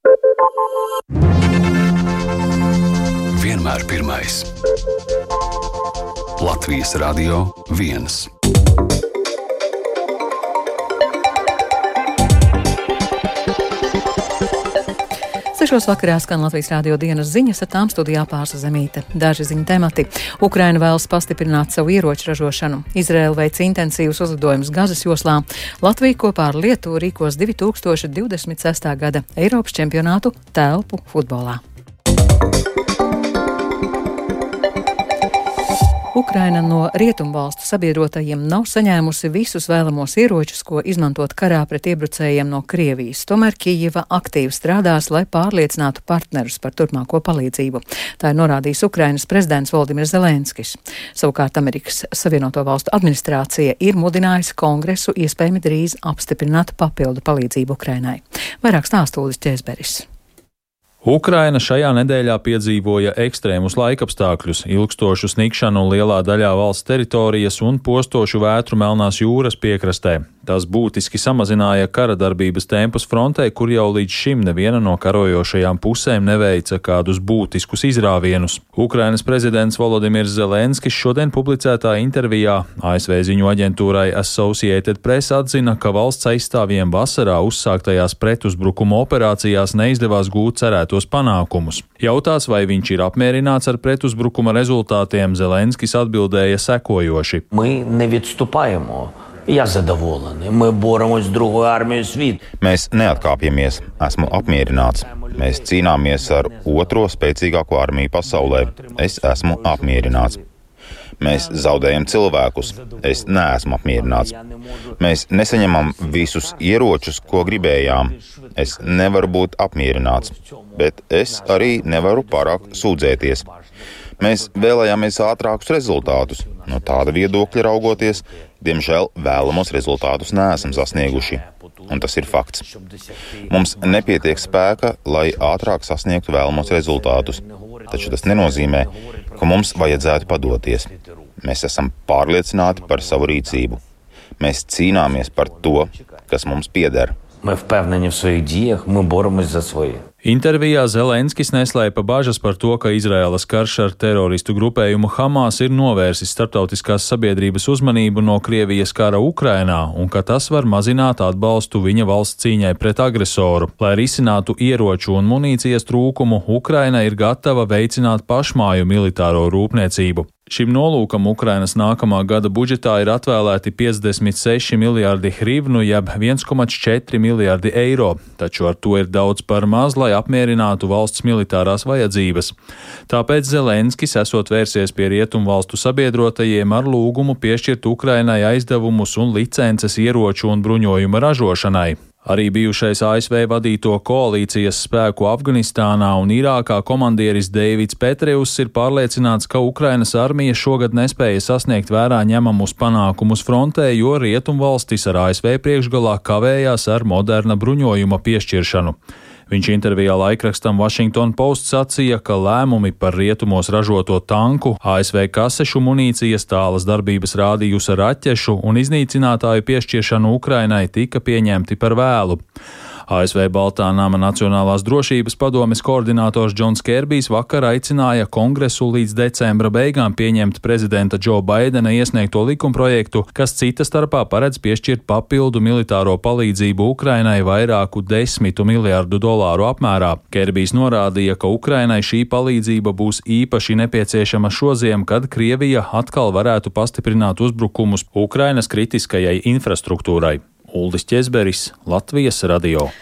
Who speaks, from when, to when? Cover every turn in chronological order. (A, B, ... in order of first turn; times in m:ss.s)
0:03.3-0:04.5 A
0:06.4-0:08.3 A
0:15.5-0:31.6 B
0:36.1-1:00.0 B
1:01.0-1:37.4 C
1:37.5-1:42.4 D
1:42.6-1:50.4 E
1:48.4-1:49.9 D
1:51.2-1:54.4 E
1:55.0-2:03.5 E
1:58.2-1:59.2 D
2:01.7-2:02.4 D
2:04.2-2:12.6 E
2:13.5-2:20.9 E
2:17.6-2:18.7 D
2:21.4-2:23.8 E
2:24.4-2:27.1 E
2:27.4-2:30.0 D
2:30.2-3:02.5 C
3:03.1-3:29.0 C
3:29.5-3:42.4 C
3:43.1-4:12.9 C